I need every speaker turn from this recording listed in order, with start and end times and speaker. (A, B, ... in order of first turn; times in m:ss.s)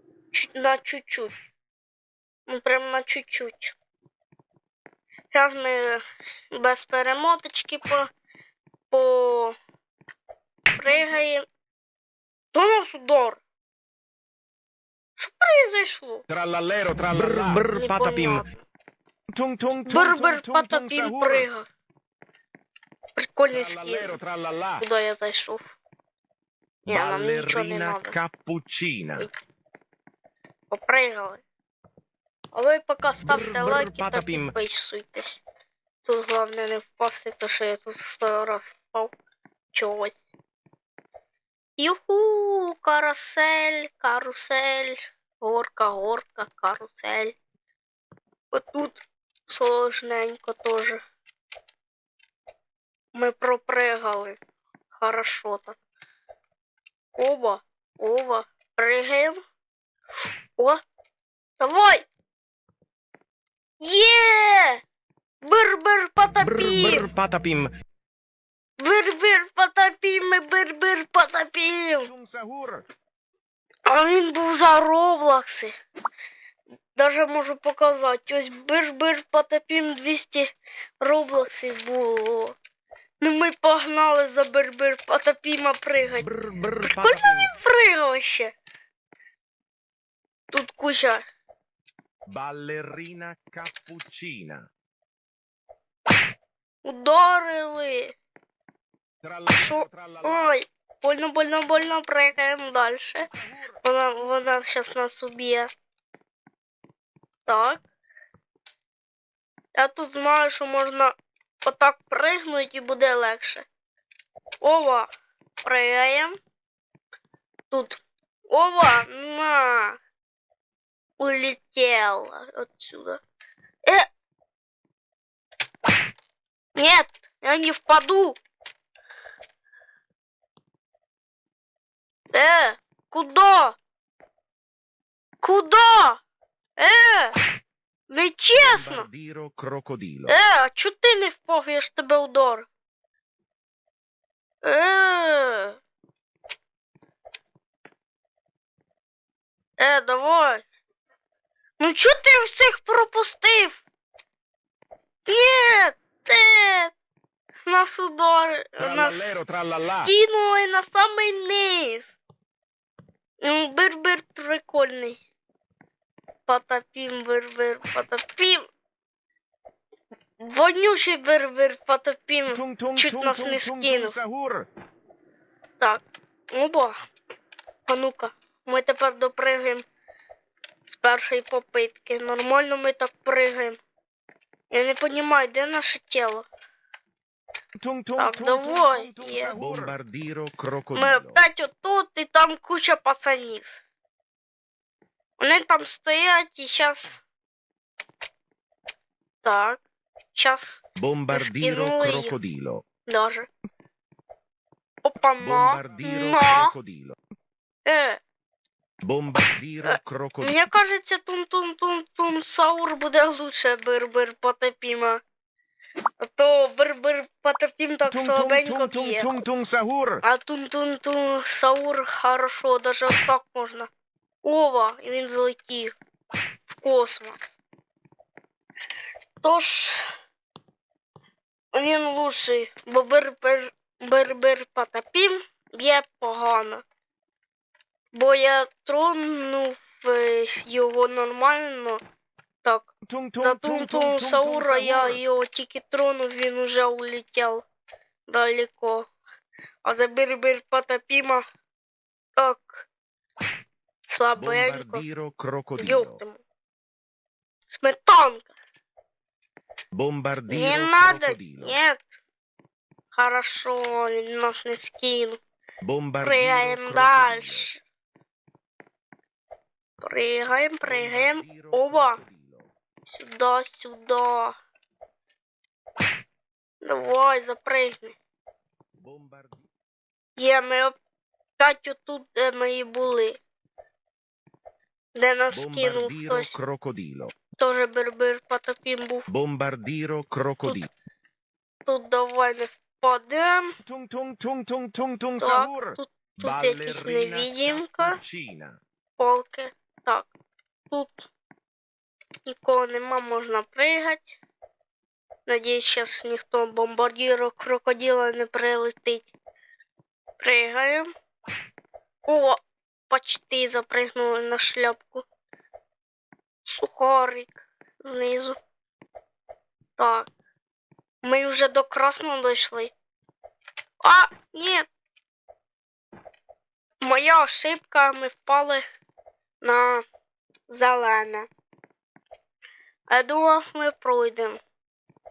0:00.3-0:01.4 A
0:02.5-0:03.8 A
0:05.3-0:08.1 A
0:08.9-0:09.6 A
0:10.8-0:11.4 A
0:10.9-0:11.1 B
0:12.5-0:13.4 A
0:15.2-0:16.2 A
0:16.3-0:17.7 B
0:17.1-0:18.4 C
0:17.7-0:18.6 A
0:19.3-0:21.5 B
0:19.8-0:21.7 A
0:23.2-0:24.2 A
0:23.5-0:24.8 B
0:24.8-0:25.7 A
0:26.9-0:29.1 C
0:26.9-0:28.2 A
0:28.4-0:28.8 B
0:30.7-0:31.4 A
0:32.5-0:35.4 A
0:33.2-0:34.5 C
0:36.0-0:39.2 A
0:39.7-0:40.3 A
0:41.8-0:47.4 A
0:48.5-0:51.0 A
0:53.1-0:54.4 A
0:54.9-0:55.8 A
0:57.2-0:59.4 A
1:01.6-1:02.1 A
1:03.8-1:04.8 A
1:05.4-1:07.1 A
1:06.4-1:07.7 C
1:08.8-1:12.1 A
1:12.1-1:12.8 B
1:13.9-1:15.7 A
1:17.0-1:22.6 A
1:23.2-1:26.3 A
1:26.2-1:27.5 C
1:26.8-1:28.5 A
1:30.5-1:31.2 A
1:32.3-1:34.6 C
1:36.8-1:38.2 A
1:39.2-1:40.5 B
1:39.5-1:43.3 A
1:43.3-1:43.8 B
1:43.8-1:45.7 A
1:47.5-1:47.8 A
1:49.8-1:53.7 A
1:54.6-1:55.1 A
1:55.6-1:56.4 A
1:57.7-2:00.0 A
2:01.2-2:03.2 A
2:06.8-2:08.4 A
2:12.3-2:13.8 A
2:15.4-2:16.2 A
2:16.8-2:17.4 A
2:18.1-2:19.1 A
2:18.6-2:20.3 C
2:20.3-2:22.7 A
2:24.6-2:25.8 A
2:29.8-2:30.6 A
2:31.8-2:33.8 A
2:35.3-2:36.9 A
2:37.7-2:42.2 A
2:38.8-2:40.1 B
2:43.4-2:45.2 A
2:46.5-2:48.7 A
2:50.4-2:54.2 A
2:52.5-2:54.7 B
2:55.8-2:57.0 A
2:57.9-2:59.8 A
3:00.9-3:03.8 A
3:04.7-3:06.5 A
3:07.8-3:10.0 B
3:08.2-3:09.6 A
3:09.6-3:11.4 C
3:10.9-3:13.7 A
3:15.4-3:17.2 A
3:19.4-3:19.8 A
3:20.3-3:22.4 A
3:21.0-3:22.8 C
3:23.1-3:23.5 A
3:25.0-3:26.7 A
3:25.4-3:27.1 C
3:27.9-3:28.2 A
3:29.0-3:29.5 C
3:29.5-3:30.5 B
3:29.8-3:35.2 A
3:36.2-3:39.3 A
3:38.1-3:40.2 B
3:40.2-3:43.9 A
3:44.4-3:46.0 A
3:46.7-3:47.6 A
3:49.4-3:50.1 A
3:51.7-3:56.8 A
3:58.1-4:02.0 A
4:02.6-4:07.6 A
4:03.1-4:05.2 B
4:08.3-4:09.1 A
4:09.8-4:11.4 A
4:12.4-4:12.8 A
4:14.1-4:15.0 A
4:14.4-4:16.2 C
4:15.8-4:16.4 A
4:17.7-4:18.5 A
4:19.9-4:21.7 C
4:20.5-4:22.2 A
4:23.1-4:25.4 A
4:25.8-4:27.7 C
4:26.2-4:27.8 A
4:30.0-4:32.2 A
4:30.8-4:32.7 C
4:33.0-4:34.6 A
4:36.8-4:38.2 A
4:39.0-4:39.6 C
4:40.4-4:41.0 A
4:41.6-4:43.4 A
4:45.2-4:46.6 A
4:45.5-4:47.3 C
4:47.6-4:49.3 A
4:49.3-4:50.8 C
4:51.9-4:53.8 A
4:53.8-4:56.0 B
4:55.4-4:58.2 A
4:56.4-4:57.5 C
4:56.6-4:58.5 B
4:59.2-5:00.3 A
5:00.9-5:01.3 A
5:02.5-5:04.4 A
5:05.5-5:09.3 A
5:10.4-5:11.1 A
5:12.3-5:15.3 A
5:16.6-5:18.6 A
5:20.0-5:20.3 A
5:21.2-5:22.9 A
5:24.0-5:24.9 A
5:27.0-5:28.8 A
5:29.6-5:30.0 A
5:30.7-5:31.5 A
5:33.1-5:34.6 A